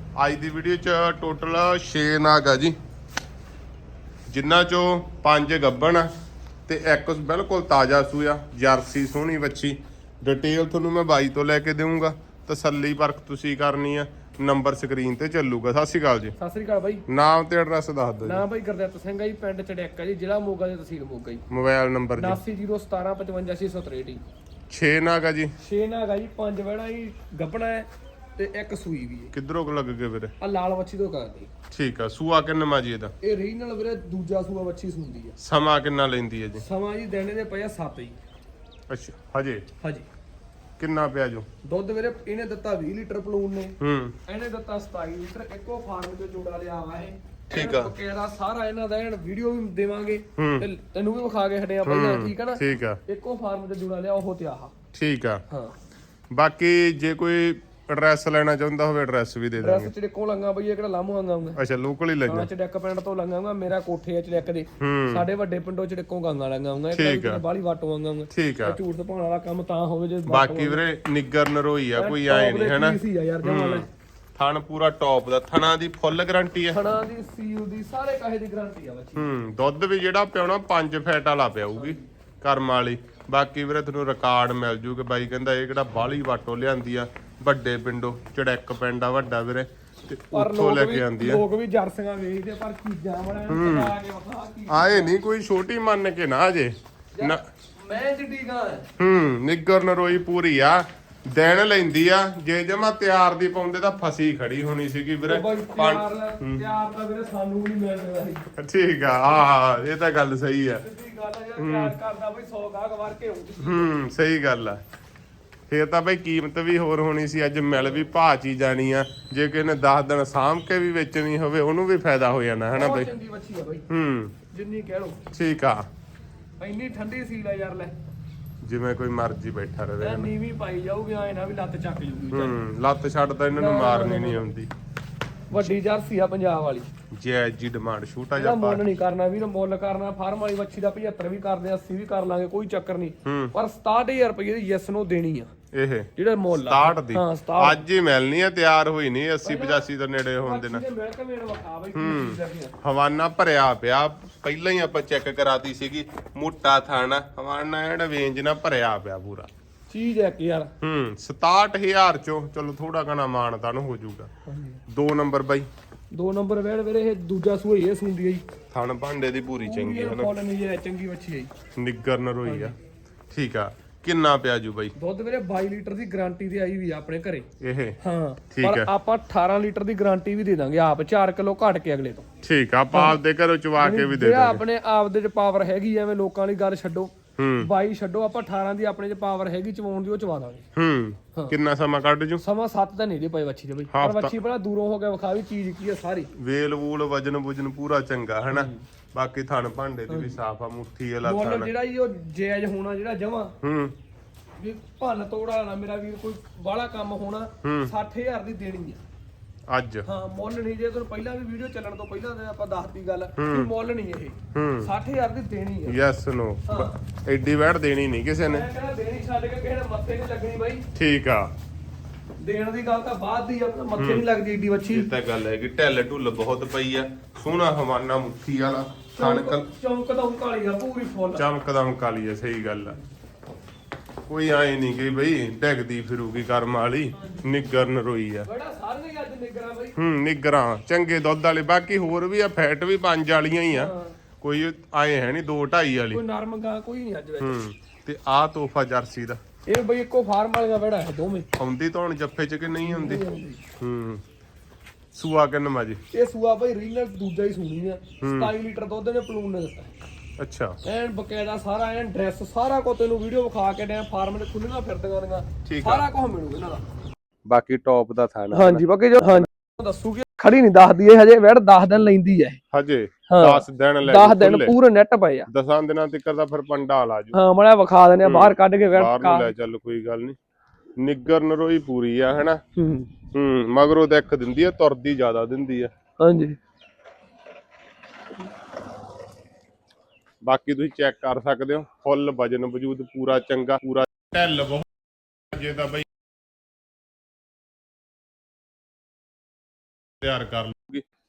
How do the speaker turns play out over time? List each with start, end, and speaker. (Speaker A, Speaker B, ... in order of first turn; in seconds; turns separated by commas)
Speaker A: 0.2-2.8, Speaker A: 4.3-6.1, Speaker A: 6.7-16.3, Speaker B: 16.4-17.0, Speaker A: 17.1-18.4, Speaker B: 18.2-21.4, Speaker A: 21.5-22.4, Speaker B: 22.2-24.2, Speaker A: 24.7-25.5, Speaker B: 25.6-29.3, Speaker A: 29.3-30.3, Speaker B: 30.4-31.5, Speaker A: 31.7-33.1, Speaker B: 33.2-35.3, Speaker A: 35.4-36.6, Speaker B: 36.6-38.1, Speaker A: 38.9-39.6, Speaker A: 40.8-41.5, Speaker B: 41.6-54.7, Speaker A: 43.8-44.1, Speaker A: 47.5-47.9, Speaker A: 50.4-50.7, Speaker A: 51.8-53.0, Speaker A: 54.9-55.4, Speaker A: 56.3-59.9, Speaker B: 59.6-61.6, Speaker A: 61.5-62.5, Speaker B: 62.3-70.8, Speaker A: 64.8-65.2, Speaker A: 66.9-67.4, Speaker A: 68.3-68.8, Speaker A: 70.3-76.8, Speaker B: 72.0-73.9, Speaker B: 76.7-79.3, Speaker A: 79.2-91.4, Speaker B: 90.3-95.1, Speaker A: 93.5-93.9, Speaker A: 94.7-97.4, Speaker B: 97.2-98.9, Speaker A: 99.0-106.6, Speaker B: 105.3-108.5, Speaker A: 108.5-110.8, Speaker B: 110.8-113.9, Speaker A: 111.6-111.9, Speaker A: 113.6-114.8, Speaker A: 115.7-123.1, Speaker B: 117.8-118.0, Speaker B: 122.7-123.8, Speaker A: 123.9-124.3, Speaker B: 124.5-125.2, Speaker A: 125.3-125.8, Speaker B: 126.6-127.9, Speaker A: 128.6-130.3, Speaker B: 130.0-132.6, Speaker A: 132.3-134.7, Speaker B: 133.5-134.4, Speaker B: 135.5-136.9, Speaker A: 137.1-138.8, Speaker B: 138.3-145.5, Speaker A: 143.2-143.5, Speaker A: 145.7-150.8, Speaker B: 146.2-147.8, Speaker B: 149.4-149.8, Speaker B: 150.4-152.7, Speaker A: 151.9-159.5, Speaker B: 159.9-160.7, Speaker A: 160.8-164.3, Speaker B: 164.4-164.8, Speaker A: 164.9-165.7, Speaker B: 166.1-168.4, Speaker A: 168.7-170.3, Speaker B: 169.6-171.5, Speaker A: 171.8-172.7, Speaker B: 172.4-172.7, Speaker A: 173.3-174.9, Speaker B: 175.0-177.5, Speaker A: 177.6-178.0, Speaker B: 178.0-182.2, Speaker A: 178.5-178.9, Speaker A: 182.4-184.6, Speaker B: 182.9-183.2, Speaker B: 183.8-190.6, Speaker A: 187.4-187.7, Speaker A: 190.7-192.4, Speaker B: 192.4-196.3, Speaker A: 193.9-194.3, Speaker A: 196.3-201.7, Speaker B: 198.5-198.8, Speaker B: 200.1-200.4, Speaker B: 201.2-203.5, Speaker A: 203.6-203.9, Speaker B: 204.6-209.0, Speaker A: 207.6-207.9, Speaker A: 209.7-210.1, Speaker B: 210.0-216.0, Speaker A: 213.4-213.7, Speaker A: 214.5-214.9, Speaker A: 215.9-218.7, Speaker B: 216.7-216.9, Speaker B: 218.4-220.8, Speaker A: 220.9-221.5, Speaker B: 222.4-225.1, Speaker A: 224.0-224.2, Speaker A: 224.9-229.7, Speaker B: 229.2-231.4, Speaker A: 231.3-233.0, Speaker A: 234.3-238.5, Speaker B: 237.2-237.4, Speaker B: 238.4-239.9, Speaker A: 239.9-246.2, Speaker B: 243.7-244.2, Speaker B: 246.1-247.6, Speaker A: 247.4-249.4, Speaker B: 249.7-251.5, Speaker A: 251.6-253.2, Speaker B: 252.8-253.6, Speaker A: 253.8-254.2, Speaker A: 255.1-256.0, Speaker B: 256.1-259.9, Speaker A: 258.2-258.5, Speaker A: 260.4-260.8, Speaker B: 260.8-266.8, Speaker A: 265.6-266.0, Speaker A: 267.5-269.5, Speaker B: 268.5-272.6, Speaker A: 272.7-274.8, Speaker B: 273.3-275.5, Speaker A: 275.5-277.3, Speaker B: 277.3-279.5, Speaker A: 278.2-280.4, Speaker A: 281.0-282.6, Speaker B: 282.8-283.1, Speaker A: 283.3-285.9, Speaker B: 286.2-286.6, Speaker A: 290.4-294.9, Speaker A: 295.5-296.1, Speaker A: 300.2-301.0